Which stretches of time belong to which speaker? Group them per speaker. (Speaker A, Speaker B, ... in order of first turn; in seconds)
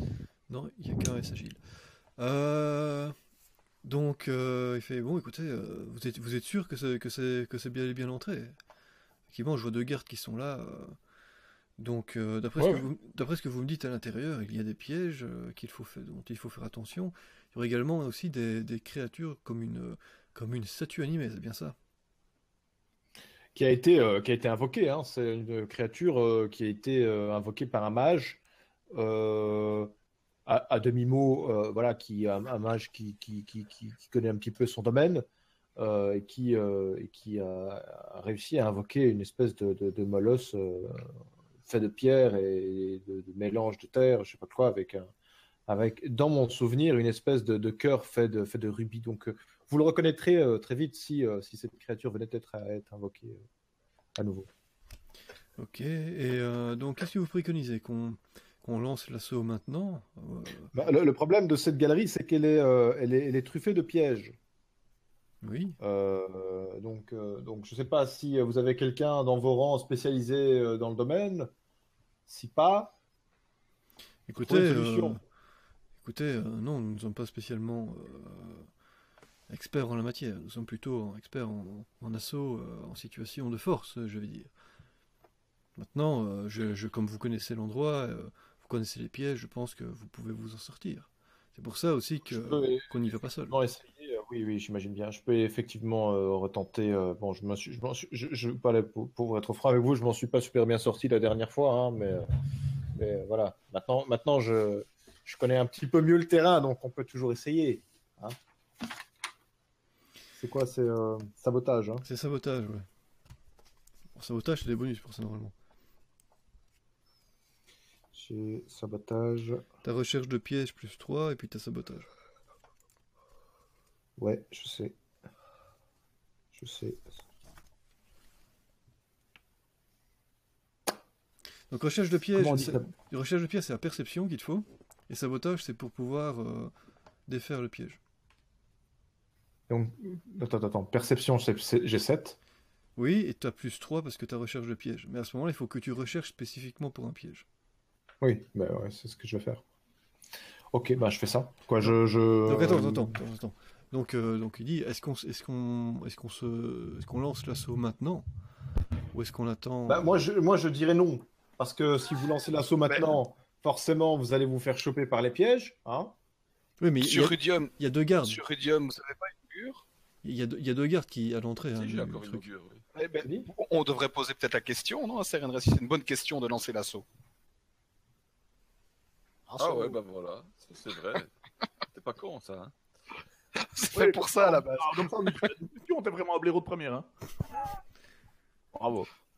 Speaker A: 0.5-1.6, 2.2-3.1, 3.8-8.6, 9.3-11.0, 11.8-21.8, 55.6-60.7, 65.4-65.8, 74.3-75.2, 76.0-78.7, 79.5-84.5, 85.8-93.6, 112.0-112.9, 114.2-115.5, 119.8-122.1, 131.7-136.7, 137.3-138.0, 143.0-147.5, 152.4-158.2, 159.1-160.1, 166.8-168.4, 170.2-172.5
Speaker B: 12.6-12.9, 23.6-28.4, 28.9-29.9, 30.5-35.2, 35.8-41.1, 41.6-45.1, 45.7-53.5, 54.2-54.5, 60.7-64.4, 65.8-71.5, 72.3-72.9, 74.4-75.2, 92.2-92.9, 93.5-102.3, 102.9-108.4, 110.4-112.0, 118.1-119.6, 124.2-125.0, 126.5-127.2, 132.4-132.9, 139.7-142.4, 148.2-149.6, 150.7-153.2, 159.9-166.1, 173.2-173.5, 184.4-185.3
Speaker C: 162.9-163.2, 167.0-169.8, 172.9-177.1, 179.5-180.0, 183.6-184.7
Speaker D: 171.8-172.8, 179.6-181.3, 181.9-182.7
Speaker E: 183.9-187.1, 188.7-189.1